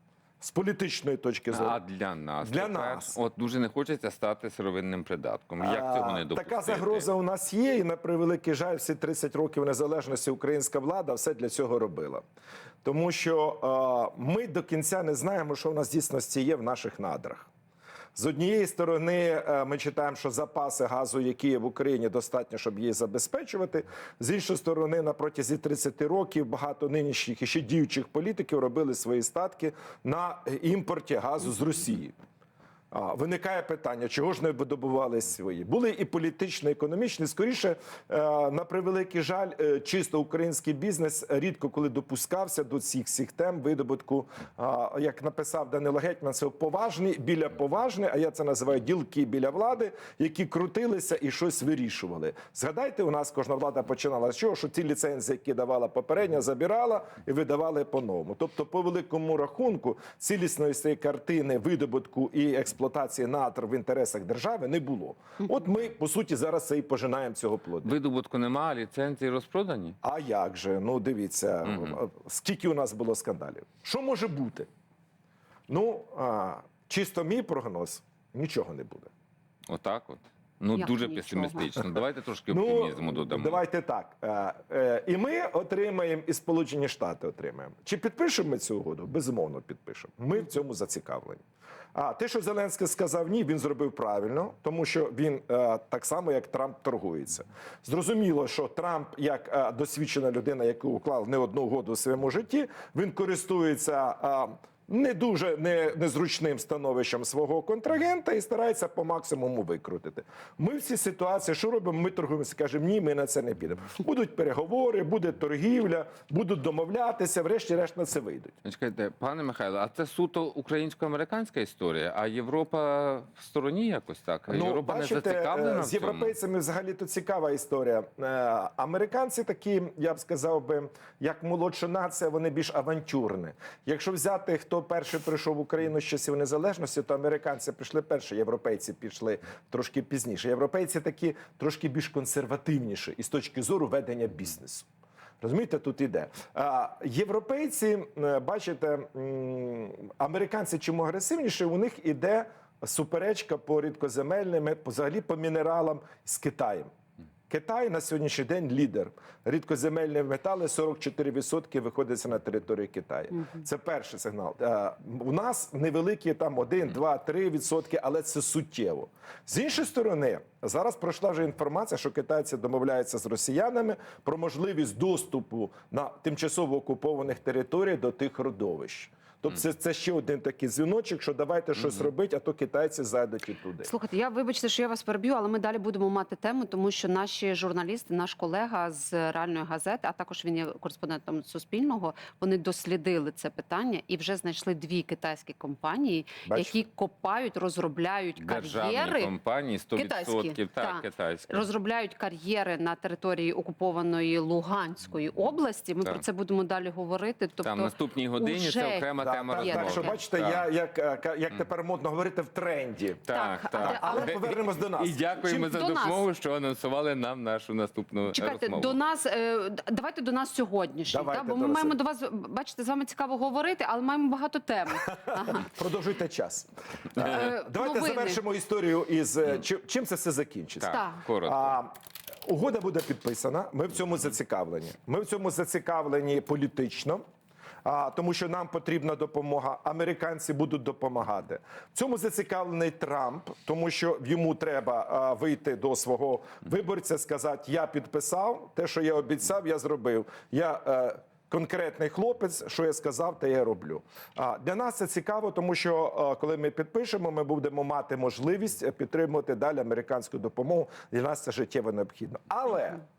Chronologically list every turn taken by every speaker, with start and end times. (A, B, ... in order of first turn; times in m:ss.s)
0:00.4-0:01.8 A
0:01.5-0:07.1 B
0:02.4-0:03.2 A
0:05.6-0:12.2 A
0:12.8-0:17.5 A
0:18.1-0:32.1 A
0:32.9-1:07.9 A
1:07.8-1:10.0 B
1:10.0-1:14.7 A
1:11.6-1:11.9 B
1:15.7-1:19.1 A
1:19.7-1:23.6 B
1:20.7-1:21.7 C
1:22.5-1:31.4 A
1:31.9-1:58.5 A
1:58.6-2:06.3 B
2:04.5-2:24.9 A
2:25.4-2:36.9 A
2:37.5-3:03.9 A
3:03.8-3:19.3 C
3:16.4-3:16.8 A
3:18.4-3:21.7 B
3:19.9-3:30.2 C
3:27.6-3:30.6 B
3:29.2-3:35.5 A
3:33.2-3:39.0 B
3:33.3-3:34.4 C
3:35.5-3:36.2 C
3:38.3-3:45.7 C
3:41.1-3:42.0 A
3:45.6-3:51.9 A
3:47.2-3:48.4 C
3:50.8-3:51.8 B
3:50.9-3:51.2 C
3:52.5-3:57.2 A
3:57.8-4:23.0 A